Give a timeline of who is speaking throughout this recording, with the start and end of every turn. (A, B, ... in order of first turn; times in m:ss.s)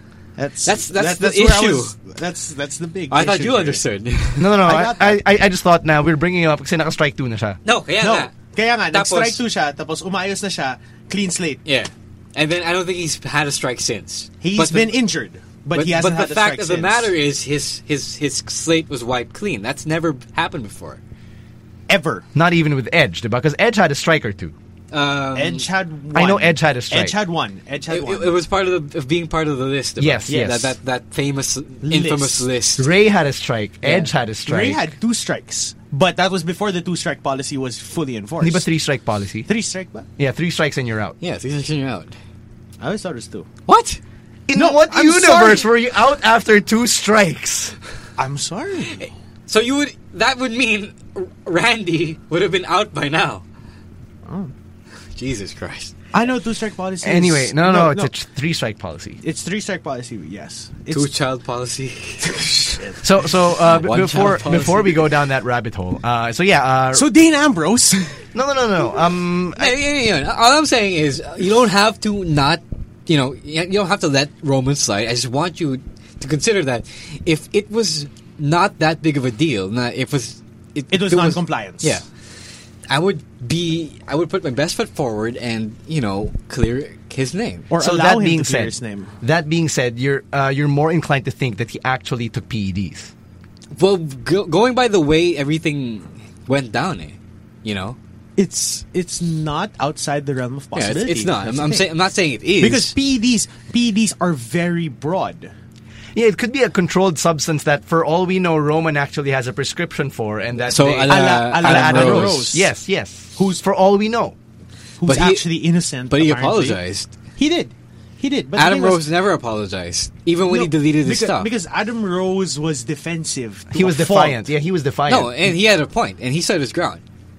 0:00.4-0:03.8 A
0:00.6-0:01.9 B
0:03.1-0:04.6 B
0:04.4-0:07.6 C
0:04.6-0:05.2 A
0:07.6-0:08.4 B
0:08.0-0:11.6 A
0:08.9-0:09.4 B
0:11.6-0:15.0 B
0:14.4-0:17.1 A
0:15.7-0:21.0 B
0:21.9-0:22.3 A
0:22.3-0:24.5 C
0:24.9-0:25.6 B
0:25.3-0:28.4 A
0:26.1-0:27.1 C
0:27.9-0:32.9 B
0:30.0-0:30.7 C
0:30.3-0:30.6 A
0:31.8-0:32.5 A
0:32.8-0:34.8 C
0:33.8-0:34.1 B
0:34.4-0:38.6 A
0:38.4-0:39.5 C
0:39.5-0:40.1 A
0:40.2-0:41.2 C
0:41.2-0:42.1 B
0:42.8-0:43.5 A
0:43.6-0:44.0 B
0:44.5-0:47.7 C
0:44.6-0:45.7 A
0:48.2-0:49.1 A
0:49.5-0:53.4 B
0:54.2-0:54.5 A
0:55.1-0:55.9 B
0:56.1-0:58.1 A
0:57.0-0:59.2 C
0:59.2-1:01.1 A
1:00.9-1:03.0 B
1:02.3-1:03.0 A
1:03.0-1:07.0 C
1:03.5-1:05.1 B
1:06.9-1:08.2 A
1:08.3-1:09.7 C
1:09.6-1:22.0 B
1:20.9-1:22.0 A
1:22.9-1:27.7 B
1:27.7-1:29.1 A
1:27.8-1:33.1 C
1:33.8-1:38.0 B
1:38.4-1:41.9 A
1:40.8-1:42.9 B
1:42.6-1:45.5 A
1:46.1-1:54.3 C
1:50.7-1:52.6 B
1:51.1-1:52.7 A
1:55.0-1:56.8 A
1:55.0-1:55.5 B
1:56.1-1:57.1 B
1:57.4-1:59.0 A
1:58.5-2:01.5 B
2:00.5-2:04.4 A
2:03.7-2:05.3 C
2:05.1-2:07.0 B